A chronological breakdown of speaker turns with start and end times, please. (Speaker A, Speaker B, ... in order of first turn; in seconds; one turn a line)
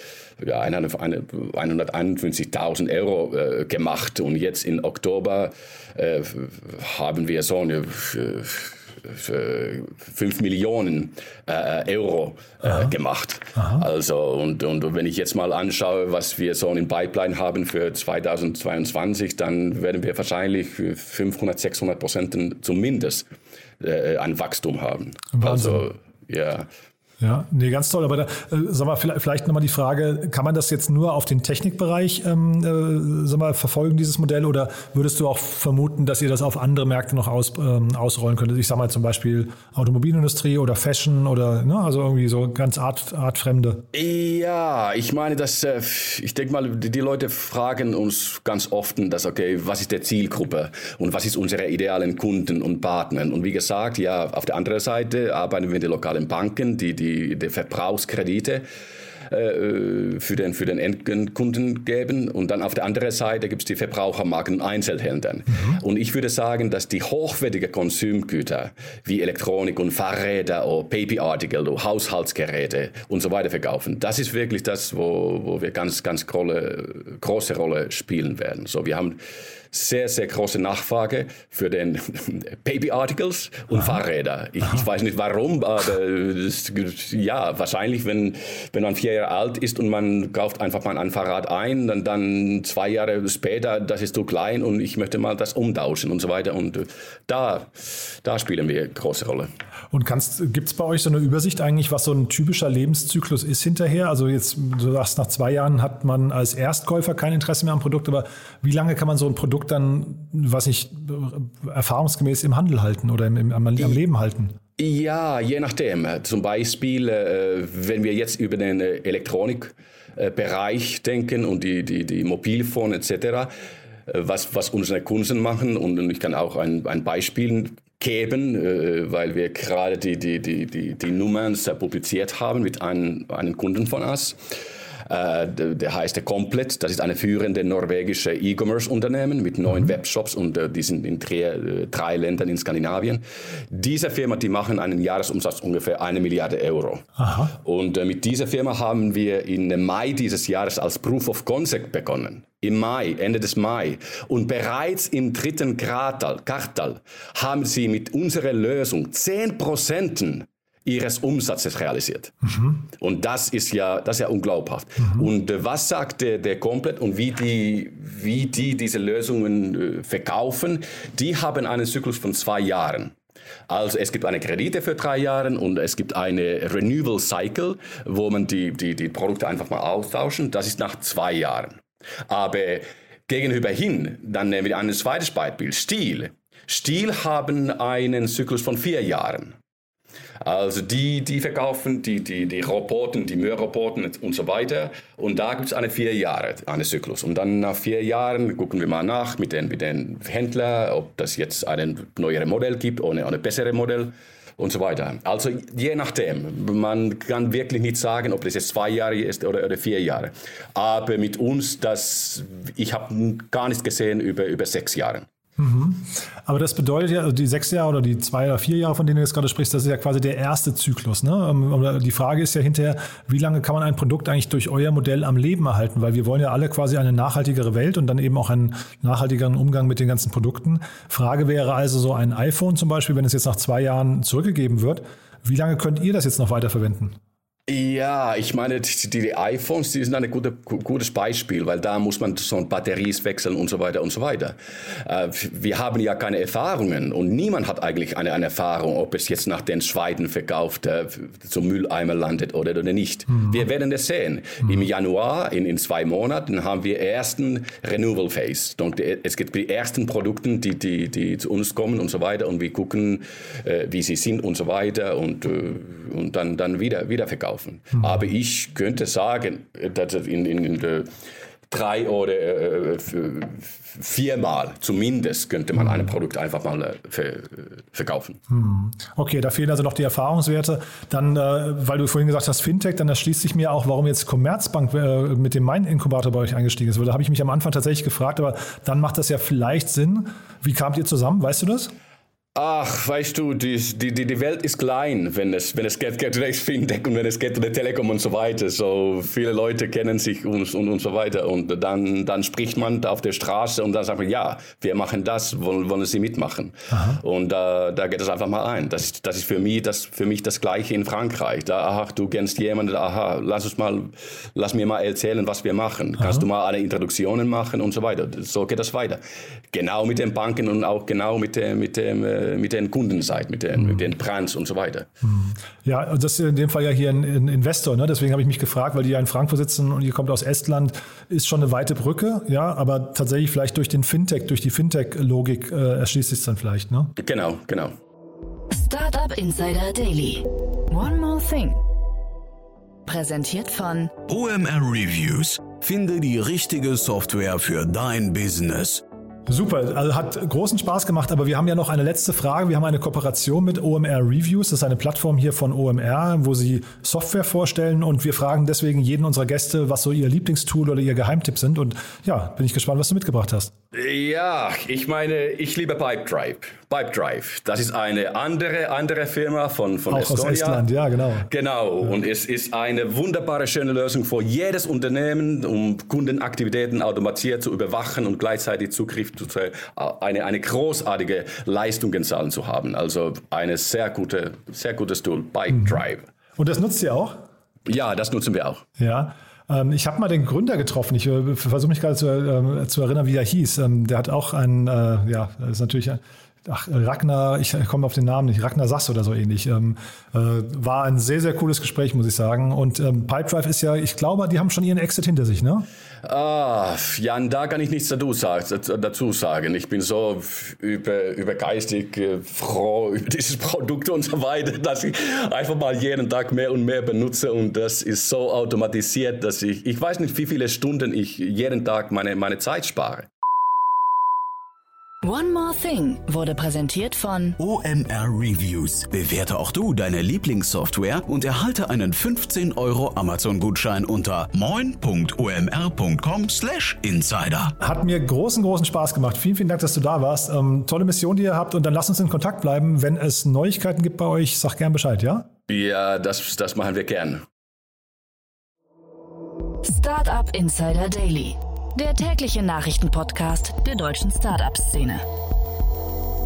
Speaker A: 0.4-23.3
Speaker A: 23.8-26.6
Speaker B: 25.3-25.8
Speaker B: 27.2-43.8
Speaker A: 43.9-58.6
Speaker A: 59.3-79.2
Speaker B: 65.5-65.8
Speaker A: 79.7-99.5
Speaker B: 99.9-114.6
Speaker A: 114.8-123.5
Speaker A: 124.1-134.4
Speaker A: 135.1-147.0
Speaker B: 147.2-147.5
Speaker A: 147.6-162.3
Speaker B: 162.4-162.8
Speaker A: 162.9-173.1
Speaker A: 173.7-189.5
Speaker A: 190.4-215.2
Speaker B: 215.6-237.2
Speaker A: 237.7-271.1
Speaker A: 271.7-278.4
Speaker B: 275.8-276.1
Speaker B: 278.5-291.9
Speaker A: 292.5-325.1
Speaker B: 306.9-307.2
Speaker B: 316.2-316.4
Speaker B: 325.2-337.1
Speaker A: 337.2-337.9
Speaker C: 338.7-341.8
Speaker C: 343.1-344.1
Speaker D: 344.3-349.0
Speaker B: 349.4-363.7
Speaker A: 363.9-370.8
Speaker B: 370.1-371.5
Speaker A: 371.4-386.2
Speaker B: 385.7-386.0
Speaker B: 386.6-387.4
Speaker A: 387.9-388.8
Speaker B: 389.0-405.9
Speaker A: 406.2-423.3
Speaker C: 425.2-427.5
Speaker D: 427.6-437.7
Speaker B: 437.8-445.5
Speaker A: 445.7-447.4
Speaker C: 449.8-455.2